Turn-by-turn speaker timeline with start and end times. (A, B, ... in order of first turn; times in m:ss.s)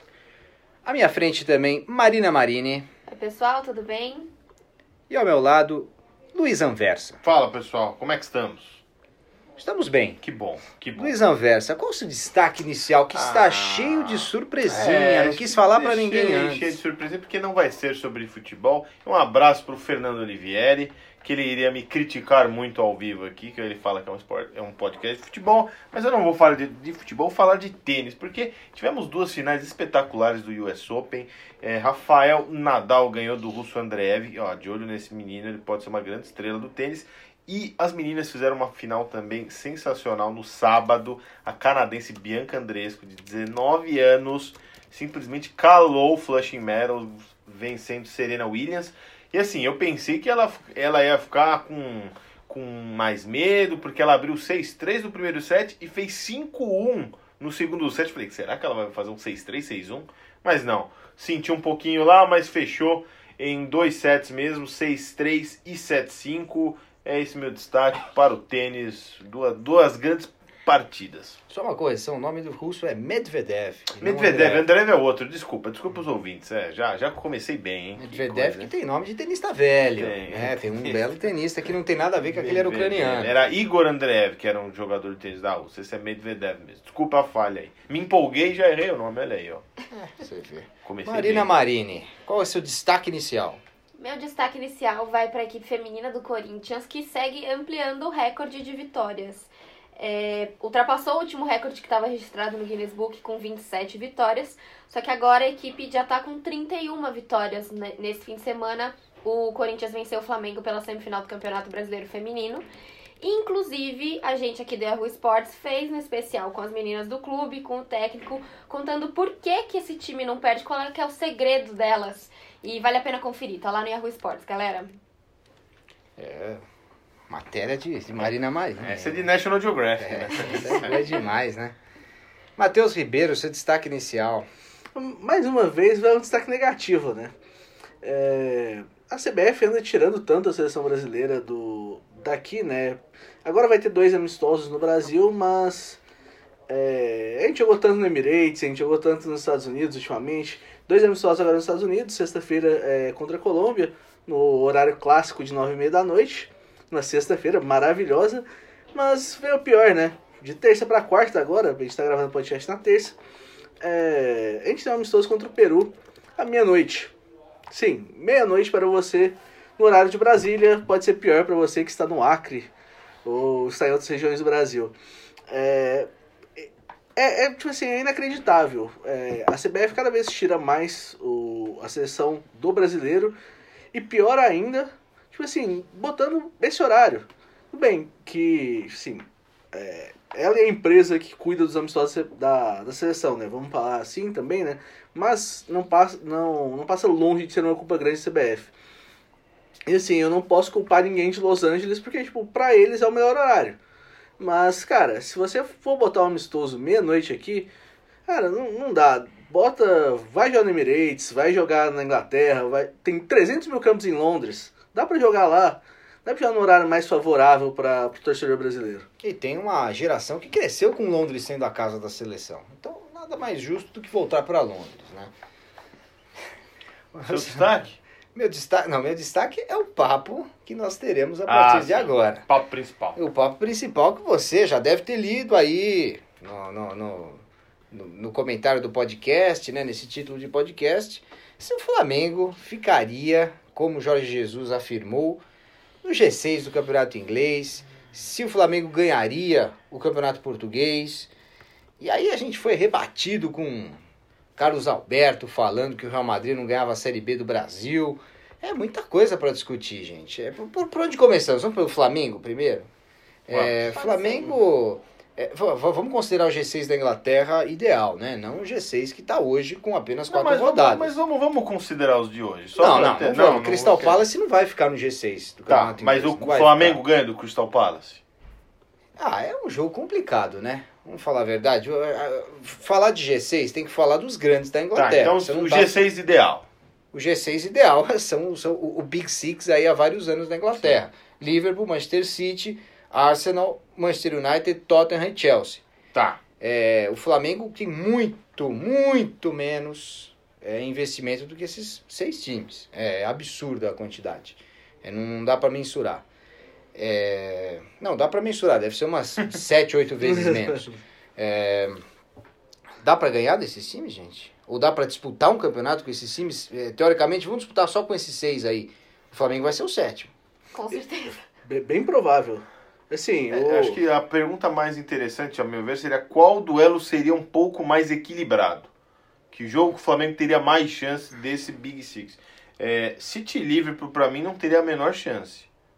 0:00.8-0:02.9 A
0:03.1-0:04.3 B
0:05.1-0:07.2 A
0:07.2-0:08.8 C
0:09.6-0:10.2 A
0:10.2-0:11.2 C
0:11.0-0:16.8 A
0:13.1-1:11.4 C
1:11.5-1:14.7 A
1:14.0-1:18.7 C
1:18.0-1:23.4 A
1:20.0-1:21.0 C
1:22.2-1:29.6 C
1:29.9-1:33.6 A
1:30.8-1:31.5 C
1:34.0-1:52.6 B
1:53.2-2:05.0 B
2:06.2-2:06.6 A
2:07.3-2:09.3 A
2:08.2-2:11.2 C
2:10.0-2:11.8 A
2:12.6-2:14.5 A
2:14.9-2:17.3 D
2:18.0-2:26.0 D
2:26.7-2:43.2 D
2:43.8-2:47.1 D
2:47.7-2:52.7 D
2:53.2-2:54.9 D
2:55.5-3:03.4 D
3:03.9-3:18.7 D
3:19.9-3:23.8 D
3:24.4-3:27.7 D
3:28.3-3:39.1 D
3:39.2-3:45.3 A
3:47.1-3:47.7 A
3:47.3-3:48.0 C
3:48.3-3:52.5 A
3:51.5-3:53.2 C
3:53.2-4:05.4 A
4:06.0-4:11.3 A
4:12.0-4:14.0 A
4:14.6-4:22.9 A
4:23.5-4:31.1 A
4:23.5-4:24.0 C
4:24.0-4:24.5 B
4:30.3-4:34.2 C
4:32.8-4:37.0 A
4:35.7-4:38.2 C
4:39.2-4:45.9 A
4:44.9-4:46.7 C
4:47.1-4:55.8 A
4:56.1-4:56.4 C
4:56.6-5:06.2 A
5:06.9-5:12.0 A
5:10.2-5:10.8 D
5:13.0-5:20.3 A
5:20.7-5:21.4 B
5:21.6-5:24.0 D
5:23.5-5:28.9 C
5:29.5-5:35.7 C